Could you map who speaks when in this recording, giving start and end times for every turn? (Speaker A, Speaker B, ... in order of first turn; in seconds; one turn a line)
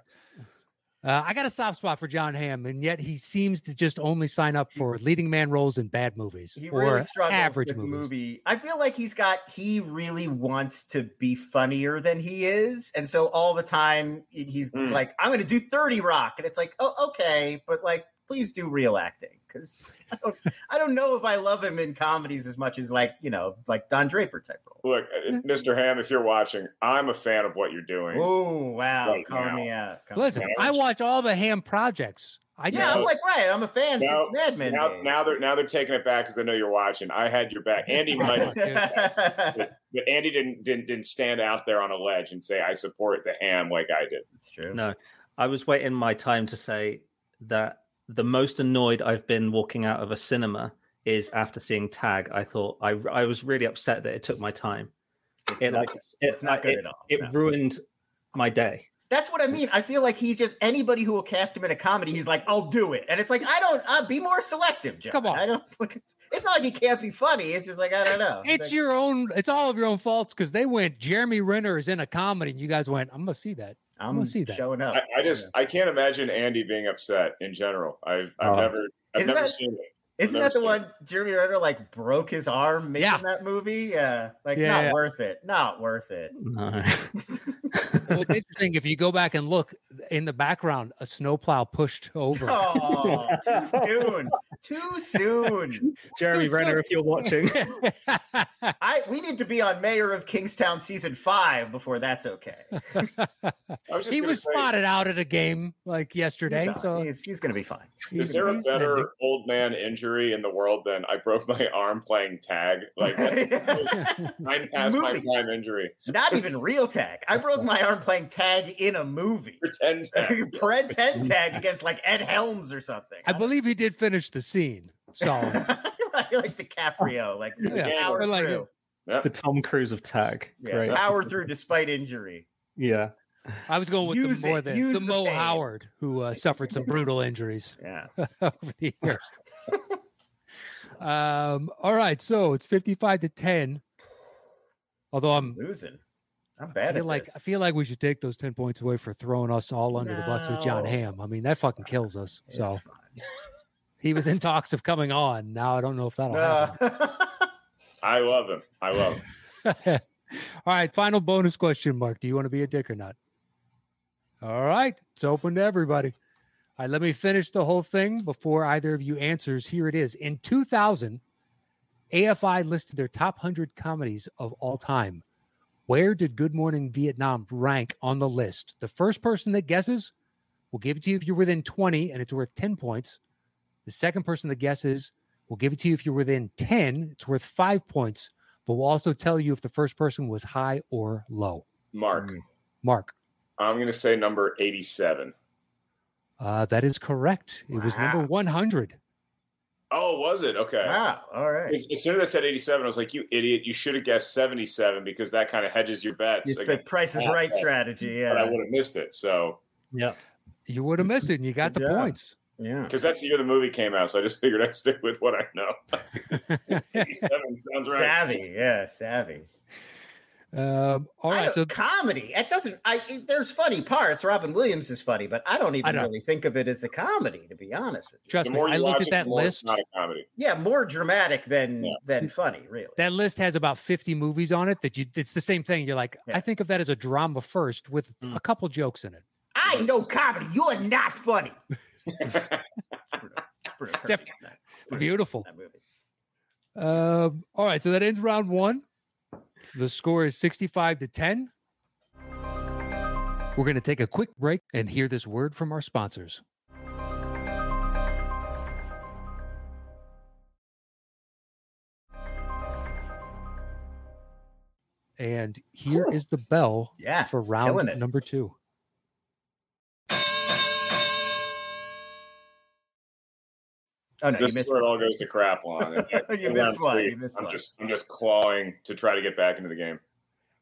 Speaker A: 1.0-8.1
Speaker B: 6.5-24.8
Speaker C: 14.7-15.0
Speaker C: 24.8-28.3
Speaker B: 28.1-30.8
Speaker C: 29.0-29.7
Speaker A: 30.1-33.1
Speaker C: 30.4-30.7
Speaker C: 32.7-33.1
Speaker B: 32.7-35.2
Speaker C: 34.0-44.2
Speaker B: 38.1-39.7
Speaker A: 38.1-38.9
Speaker B: 44.4-44.8
Speaker D: 44.7-54.9
Speaker B: 55.5-57.3
Speaker D: 55.6-57.8
Speaker D: 58.3-58.9
Speaker B: 59.1-68.8
Speaker A: 65.1-65.4
Speaker A: 68.4-74.6
Speaker B: 74.0-75.5
Speaker C: 74.9-80.8
Speaker D: 78.4-78.7
Speaker B: 79.2-79.5
Speaker B: 80.2-86.3
Speaker A: 83.0-83.2
Speaker A: 84.5-85.0
Speaker D: 86.4-88.1
Speaker A: 88.0-93.1
Speaker B: 92.3-95.9
Speaker D: 93.1-93.8
Speaker D: 96.1-97.8
Speaker A: 96.3-98.7
Speaker B: 98.8-103.1
Speaker A: 103.0-103.5
Speaker C: 103.9-104.7
Speaker A: 104.1-107.1
Speaker B: 106.5-108.6
Speaker A: 108.1-109.1
Speaker C: 108.1-116.0
Speaker B: 113.0-115.3
Speaker A: 114.0-114.3
Speaker B: 116.1-119.6
Speaker C: 119.6-120.6
Speaker B: 120.1-123.5
Speaker A: 123.2-125.7
Speaker B: 125.2-128.7
Speaker C: 127.6-128.3
Speaker A: 127.7-128.7
Speaker D: 129.2-131.2
Speaker B: 130.6-132.5
Speaker D: 132.8-133.6
Speaker A: 133.7-139.3
Speaker B: 134.0-135.6
Speaker B: 137.8-138.1
Speaker A: 141.0-143.8
Speaker A: 145.1-145.6
Speaker B: 145.3-146.0
Speaker B: 146.6-147.4
Speaker A: 146.7-152.8
Speaker B: 149.9-151.0
Speaker B: 152.5-153.1
Speaker A: 154.0-156.8
Speaker B: 156.3-157.5
Speaker C: 158.0-159.2
Speaker A: 159.6-163.2
Speaker A: 164.4-166.1
Speaker A: 166.8-171.2
Speaker A: 172.1-175.2
Speaker A: 175.9-180.1
Speaker A: 180.7-183.2
Speaker A: 183.8-191.6
Speaker C: 191.9-192.3
Speaker B: 192.1-192.4
Speaker A: 192.8-193.1
Speaker C: 193.6-195.3
Speaker A: 196.4-199.0
Speaker B: 197.7-198.2
Speaker C: 199.9-201.0
Speaker B: 200.8-201.8
Speaker C: 201.7-207.7
Speaker B: 206.4-208.6
Speaker C: 208.3-209.6
Speaker A: 210.7-212.3
Speaker B: 211.6-212.9
Speaker C: 212.9-218.3
Speaker A: 216.5-217.1
Speaker B: 217.8-219.5
Speaker A: 220.5-221.7
Speaker B: 221.3-228.3
Speaker A: 225.8-226.1
Speaker A: 228.3-229.7
Speaker C: 228.4-230.2
Speaker B: 230.4-233.0
Speaker A: 233.0-239.2
Speaker B: 239.5-241.6
Speaker C: 242.2-242.4
Speaker B: 243.1-245.8
Speaker A: 244.9-245.4
Speaker A: 246.8-248.8
Speaker A: 249.7-251.5
Speaker A: 253.5-256.4
Speaker A: 265.2-268.5
Speaker B: 267.0-268.0
Speaker B: 274.2-274.9
Speaker C: 274.4-280.0
Speaker B: 275.8-277.6